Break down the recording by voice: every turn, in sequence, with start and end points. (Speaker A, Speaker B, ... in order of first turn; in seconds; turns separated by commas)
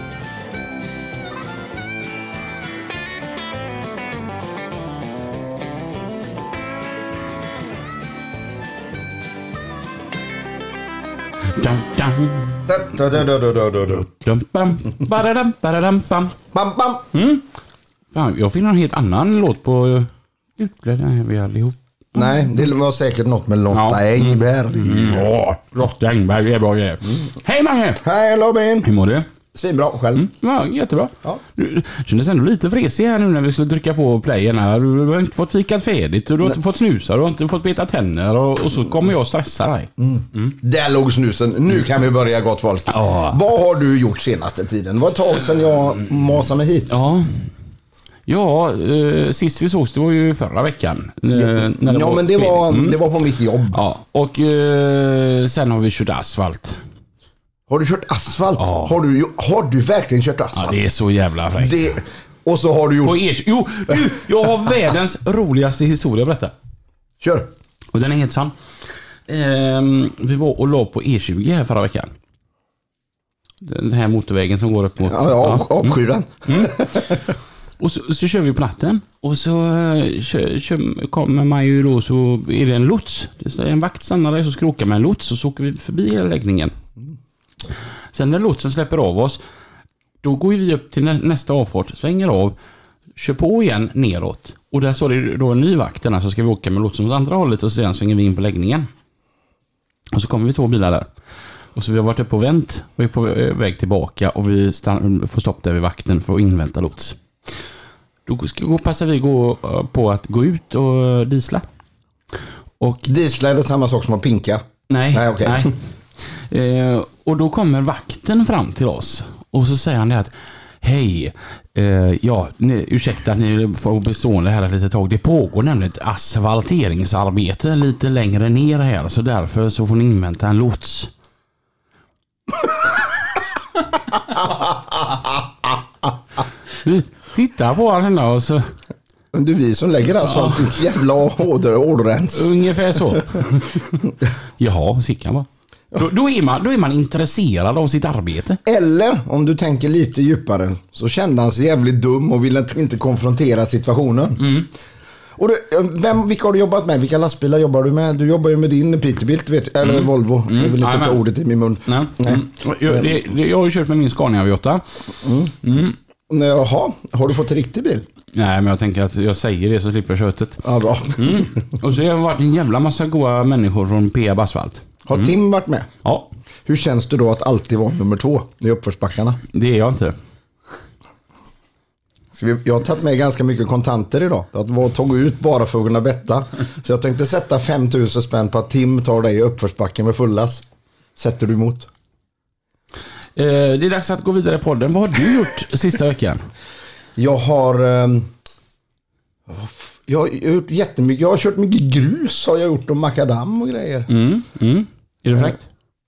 Speaker A: 11.5-12.7, Speaker B: 12.7-14.1, Speaker A: 14.0-16.4, Speaker B: 16.5-17.1, Speaker A: 17.1-17.4, Speaker A: 18.1-22.3, Speaker B: 22.1-25.3, Speaker A: 23.7-28.0, Speaker B: 28.0-28.9, Speaker A: 28.8-29.3, Speaker B: 29.5-30.3, Speaker A: 30.1-40.5, Speaker B: 40.0-47.0, Speaker A: 42.9-43.4, Speaker A: 46.9-47.5, Speaker A: 48.3-53.0, Speaker B: 51.3-53.8, Speaker A: 53.7-56.8, Speaker B: 57.7-60.8, Speaker A: 58.6-58.9, Speaker A: 60.5-61.9, Speaker B: 61.6-63.2, Speaker A: 63.0-66.5, Speaker B: 67.2-67.5, Speaker A: 67.9-68.5, Speaker A: 69.3-72.1, Speaker A: 73.6-86.7, Speaker B: 75.0-77.2, Speaker A: 88.1-89.4, Speaker A: 90.2-92.5, Speaker A: 93.2-98.9, Speaker A: 100.1-101.1, Speaker A: 101.7-107.2, Speaker A: 108.2-111.7, Speaker A: 112.8-113.0, Speaker B: 113.0-115.7, Speaker A: 114.9-131.1, Speaker B: 134.3-135.8, Speaker A: 136.8-138.7, Speaker B: 139.3-142.5, Speaker A: 140.2-140.8, Speaker A: 142.3-148.6, Speaker B: 148.7-154.5, Speaker A: 154.4-154.7, Speaker B: 155.4-163.1, Speaker A: 159.8-161.2, Speaker A: 161.8-164.8, Speaker B: 165.2-165.6, Speaker A: 165.6-165.9, Speaker B: 166.3-168.1, Speaker A: 168.3-170.6, Speaker B: 170.6-171.6, Speaker A: 171.2-175.3, Speaker B: 175.1-175.9, Speaker B: 176.7-179.4, Speaker A: 179.5-180.1, Speaker B: 182.3-191.9, Speaker A: 193.3-196.4, Speaker B: 197.2-198.3, Speaker B: 199.5-204.1, Speaker A: 204.1-205.6